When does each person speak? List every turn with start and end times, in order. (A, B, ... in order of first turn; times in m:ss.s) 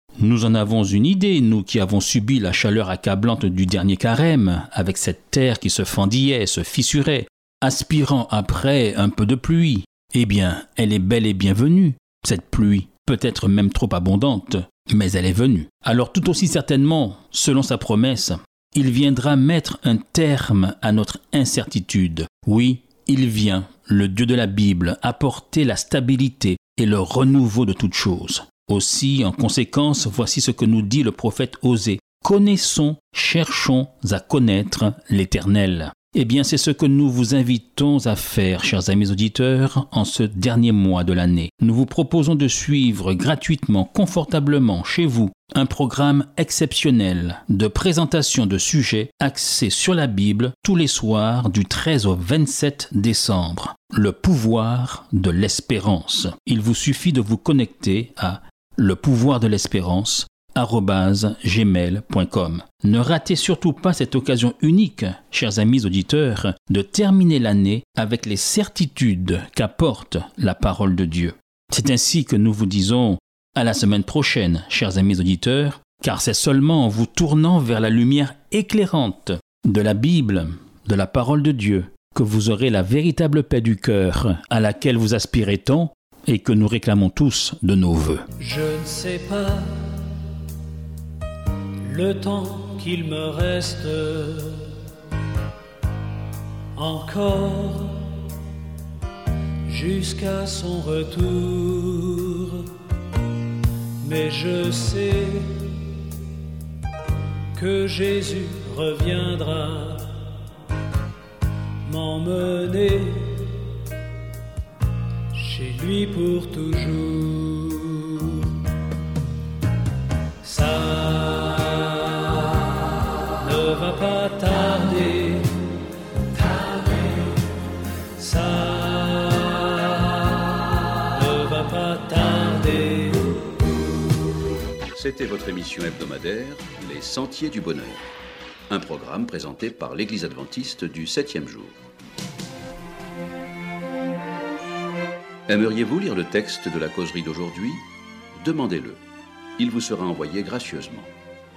0:00.2-1:29.6 A
1:28.4-1:30.0 B
1:31.9-1:34.7 B
1:32.3-1:34.5 A
1:36.8-1:38.2 B
1:37.0-1:37.8 A
1:39.7-1:41.4 B
1:39.7-1:42.6 A
1:42.2-1:42.6 B
1:44.0-1:45.2 B
1:44.0-1:45.5 A
1:47.6-1:49.4 B
1:47.6-1:50.1 A
1:51.9-1:53.2 B
1:51.9-1:53.5 A
1:55.4-1:58.2 A
1:55.5-1:57.1 B
1:57.7-1:58.1 B
2:00.4-2:02.6 A
2:00.6-2:01.0 B
2:03.5-2:05.3 B
2:03.5-2:05.5 A
2:06.6-2:07.1 B
2:08.2-2:09.6 A
2:08.4-2:10.4 B
2:11.2-2:13.4 B
2:11.4-2:13.1 A
2:14.9-2:18.0 C
2:18.7-2:21.8 C
2:25.5-2:27.8 C
2:28.4-2:29.0 C
2:29.6-2:31.1 C